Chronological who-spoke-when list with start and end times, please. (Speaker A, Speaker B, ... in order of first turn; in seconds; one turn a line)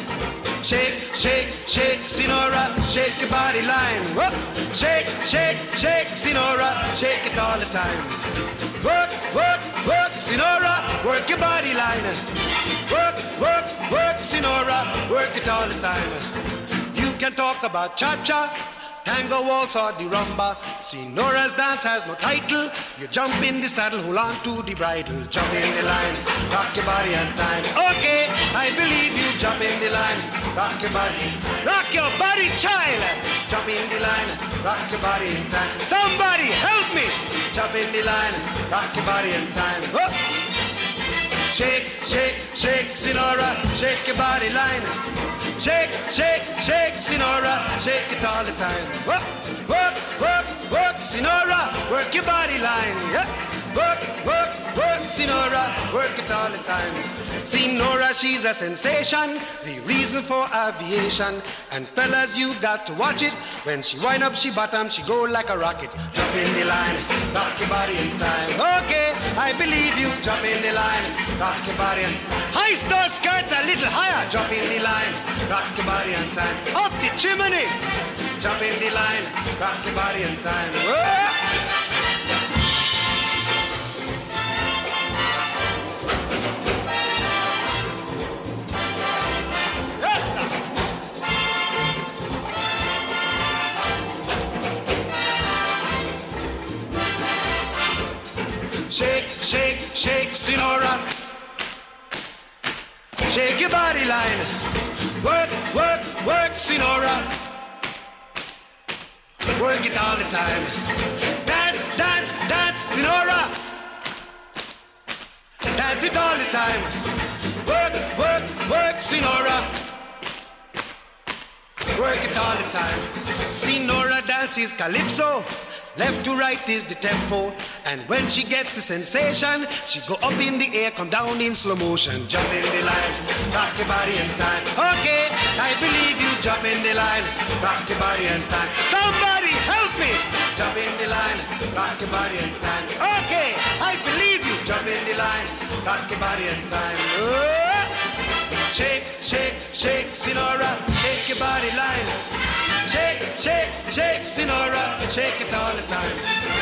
Speaker A: 0.6-12.2
Speaker A: 12.8-16.2
Speaker A: 16.9-40.4
Speaker A: 41.5-45.0
Speaker A: 45.5-77.8
Speaker A: 78.4-81.4
Speaker A: 90.1-90.4
Speaker A: 98.9-101.2
Speaker A: 103.2-104.5
Speaker A: 105.2-107.4
Speaker A: 109.5-110.7
Speaker A: 111.3-113.7
Speaker A: 115.7-116.9
Speaker A: 117.6-119.8
Speaker A: 121.9-147.9
Speaker A: 148.7-152.2
Speaker A: 152.8-156.4